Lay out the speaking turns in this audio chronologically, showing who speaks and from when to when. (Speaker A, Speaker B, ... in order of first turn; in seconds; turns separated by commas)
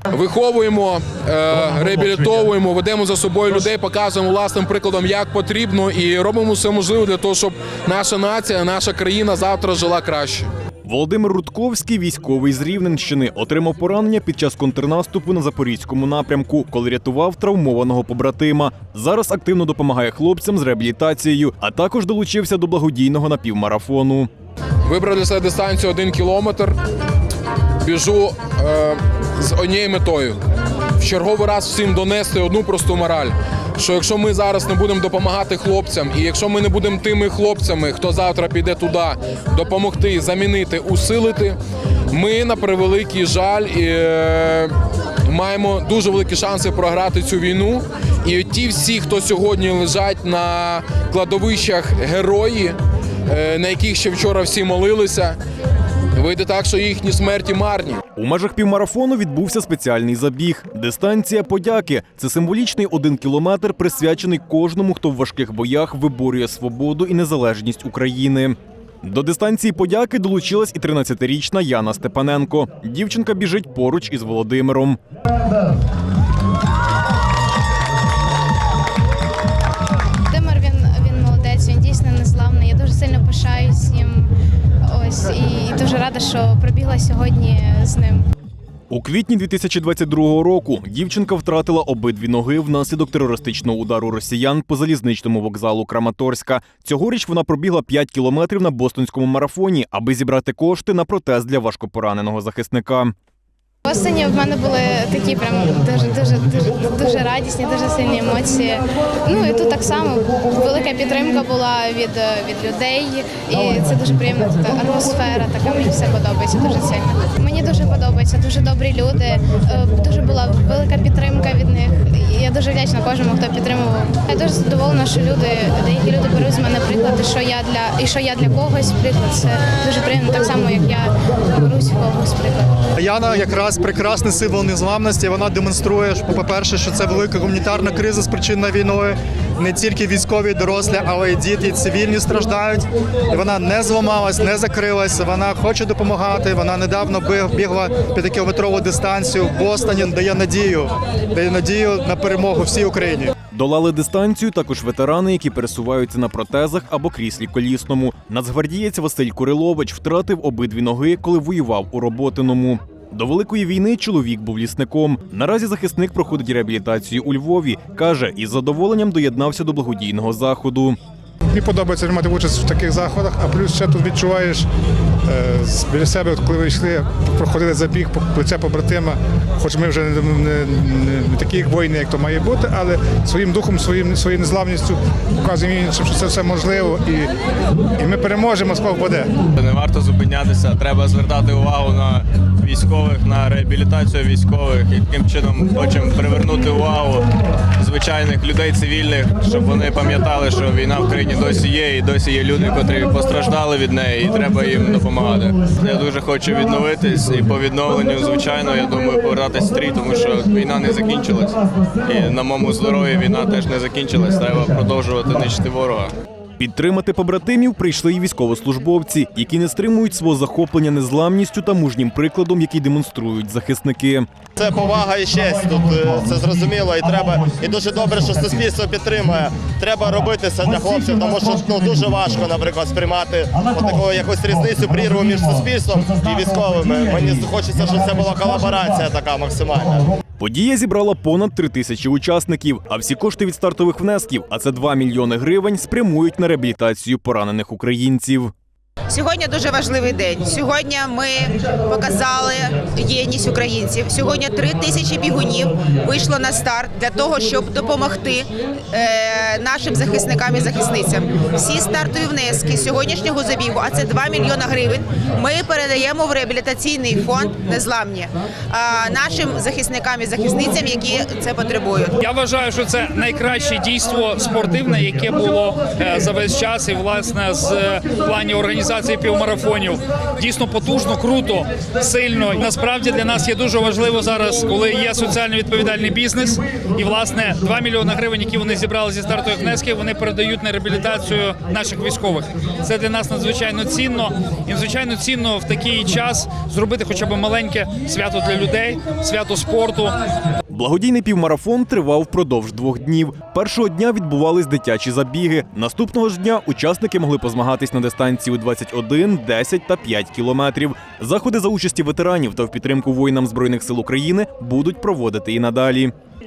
Speaker A: 0.1-10.5, Speaker B: 10.8-24.3, Speaker A: 24.8-26.8, Speaker A: 27.8-30.4, Speaker A: 31.0-41.6, Speaker A: 42.1-44.7, Speaker A: 45.3-52.8, Speaker A: 53.3-55.4, Speaker A: 56.1-58.0, Speaker B: 58.1-75.0, Speaker C: 80.3-84.3, Speaker C: 84.8-88.2, Speaker B: 88.9-103.1, Speaker C: 103.8-132.7, Speaker D: 132.9-153.3, Speaker B: 153.5-171.0, Speaker E: 171.5-174.7, Speaker E: 175.2-187.3, Speaker E: 188.0-189.3, Speaker F: 189.6-197.3, Speaker F: 197.8-216.1, Speaker B: 216.6-224.3, Speaker G: 224.6-240.0, Speaker B: 240.4-248.5, Speaker H: 249.1-272.1, Speaker I: 272.2-300.1, Speaker B: 300.7-316.1